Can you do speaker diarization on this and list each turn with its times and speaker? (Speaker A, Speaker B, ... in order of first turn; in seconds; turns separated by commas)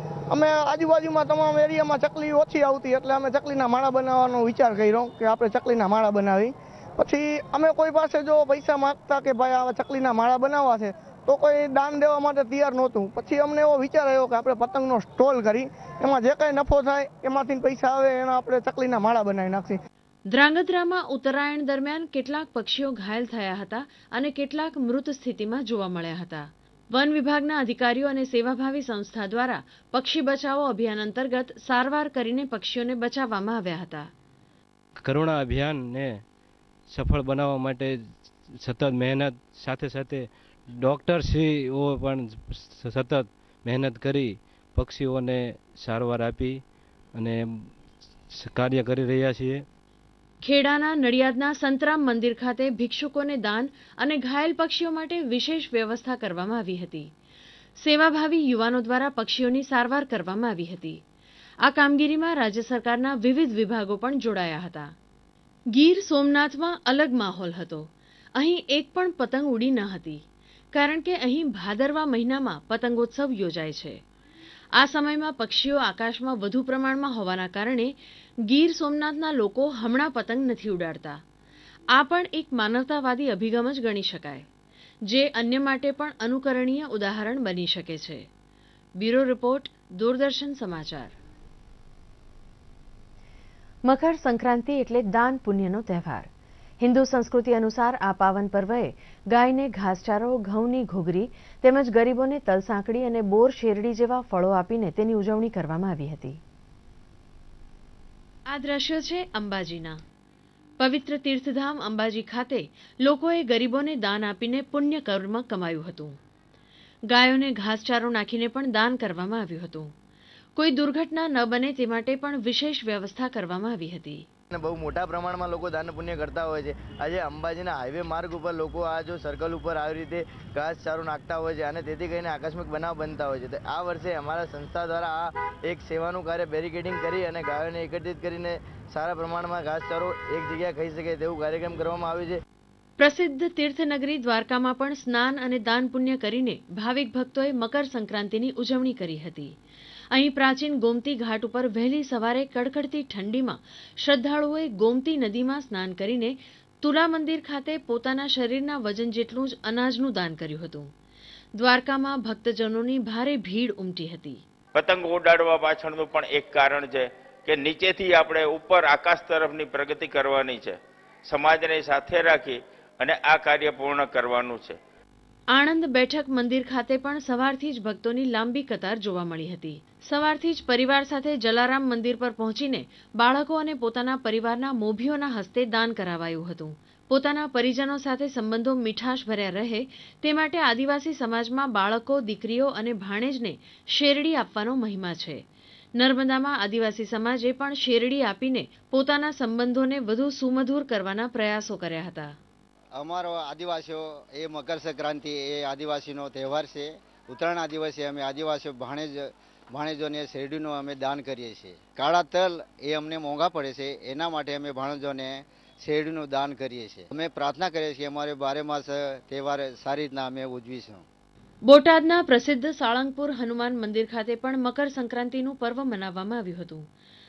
Speaker A: 0.3-19.8, Speaker B: 20.3-34.1, Speaker C: 35.0-36.2, Speaker C: 36.9-47.8, Speaker C: 48.3-49.6, Speaker B: 50.4-57.1, Speaker B: 57.8-61.0, Speaker B: 61.6-64.9, Speaker B: 65.7-70.2, Speaker B: 70.7-74.0, Speaker B: 74.8-77.9, Speaker B: 78.5-81.2, Speaker B: 81.9-84.5, Speaker B: 85.0-88.2, Speaker B: 89.0-91.1, Speaker B: 93.8-96.3, Speaker B: 96.8-106.4, Speaker B: 108.5-110.0, Speaker B: 110.8-116.2, Speaker B: 117.1-119.9, Speaker B: 120.6-124.2, Speaker D: 124.5-142.3, Speaker B: 143.0-149.5, Speaker B: 150.1-160.9, Speaker B: 161.6-164.4, Speaker E: 164.7-174.8, Speaker B: 175.5-195.4, Speaker B: 196.0-202.3, Speaker F: 202.9-221.1, Speaker B: 221.7-226.9